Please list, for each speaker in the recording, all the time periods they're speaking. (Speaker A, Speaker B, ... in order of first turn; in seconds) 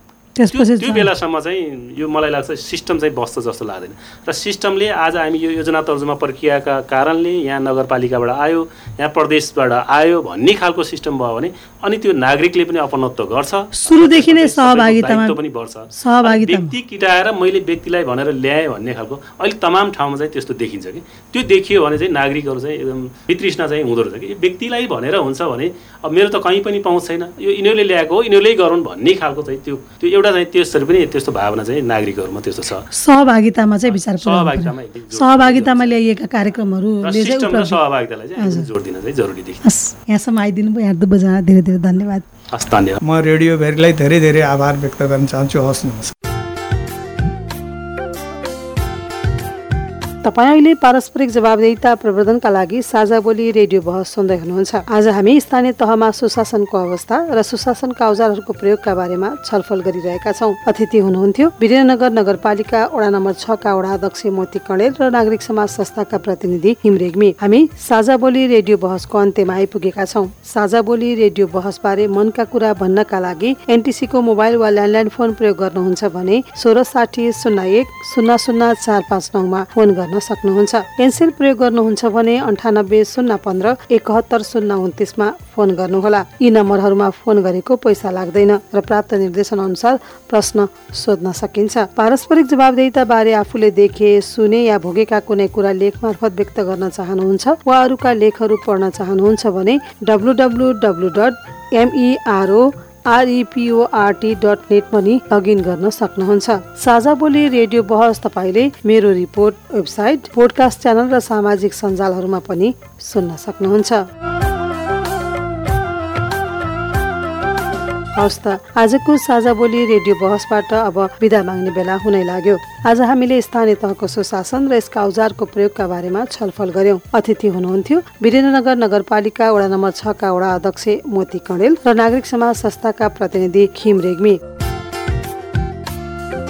Speaker A: 0.4-1.1, 13.8-15.4, 15.9-16.7, 32.9-37.8, 38.4-38.7, 39.6-42.2, 50.2-114.0, 118.2-134.4
Speaker B: 0.5-32.9, 33.9-36.0, 37.0-39.6, 42.5-43.0
Speaker C: 43.0-46.1